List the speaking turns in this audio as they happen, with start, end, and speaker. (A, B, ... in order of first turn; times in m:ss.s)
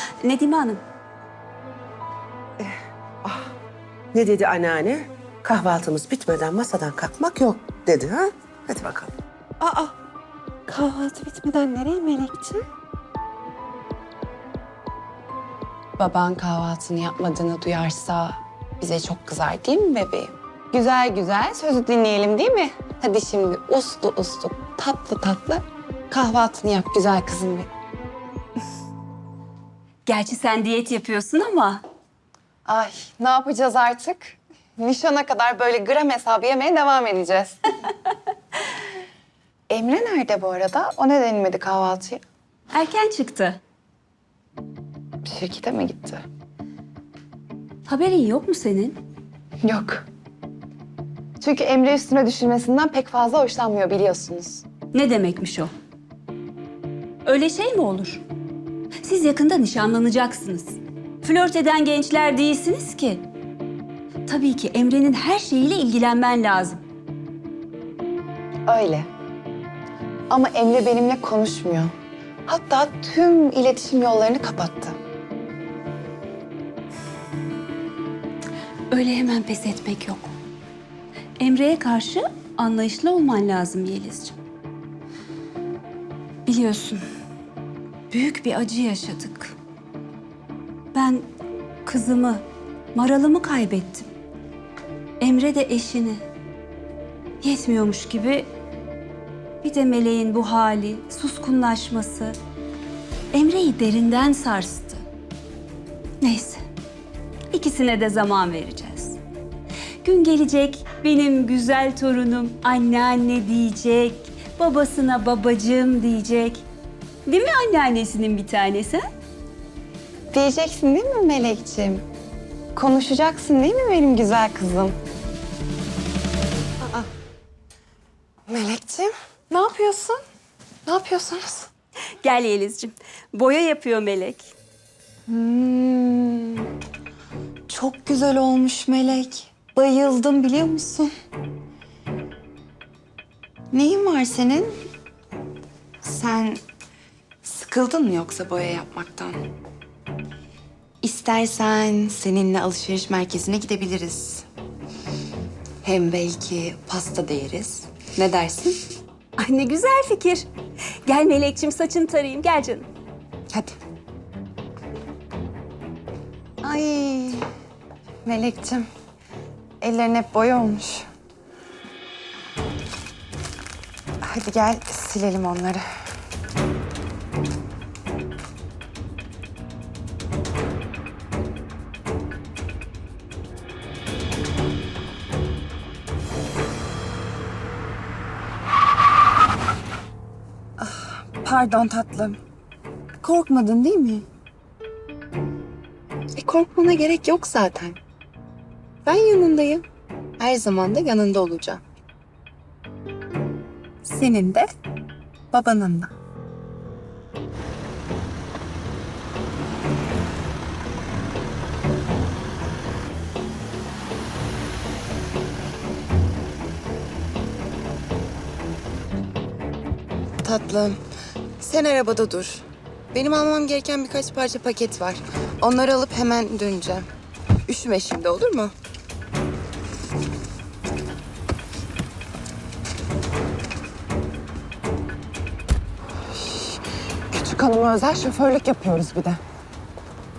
0:00.2-0:00.8 A
0:04.1-0:09.1 B
0:09.6-0:10.0 C
0:10.7-0:12.6 C
0:16.0-0:27.7 C
0:30.1-0:31.8 A
0:32.6-0:37.7 C
0:39.7-0:42.2 C
0:42.7-0:43.6 A
0:45.2-0:46.2 C
0:47.9-0:49.0 A
0:49.6-0:50.1 C
0:51.4-0:54.6 C
0:54.9-0:55.7 A
0:57.2-0:58.2 A
0:59.0-1:03.2 A
1:04.3-1:06.8 A
1:08.7-1:09.1 C
1:10.3-1:11.9 C
1:12.5-1:15.0 C
1:18.9-1:20.3 A
1:21.4-1:24.4 A
1:26.5-1:27.0 A
1:28.1-1:29.6 A
1:30.9-1:31.3 A
1:31.9-1:32.4 A
1:33.0-1:34.1 A
1:35.2-1:36.2 A
1:37.4-1:38.5 A
1:39.6-1:42.4 A
1:43.3-1:45.0 A
1:46.2-1:46.6 A
1:47.5-1:49.2 A
1:50.0-1:56.6 A
1:57.3-1:59.0 A
2:00.3-2:02.0 C
2:02.7-2:05.0 C
2:06.8-2:07.1 C
2:08.5-2:10.2 C
2:10.9-2:11.7 C
2:12.2-2:14.6 A
2:15.3-2:16.7 C
2:17.7-2:21.1 C
2:23.7-2:24.8 C
2:26.0-2:26.6 C
2:27.4-2:29.4 C
2:31.0-2:34.5 C
2:35.8-2:39.0 C
2:39.4-2:40.5 A
2:41.1-2:42.9 A
2:43.5-2:43.8 C
2:46.6-2:47.5 C
2:48.2-2:48.9 C
2:49.8-2:51.1 C
2:54.2-2:55.8 C
3:10.8-3:12.4 C
3:13.2-3:14.3 C
3:16.3-3:18.0 C
3:19.0-3:19.8 C
3:20.4-3:21.8 C
3:24.0-3:24.7 C
3:25.5-3:26.1 C
3:40.4-3:41.0 C
3:41.6-3:47.1 C
3:47.7-3:48.7 C
3:56.3-3:59.4 C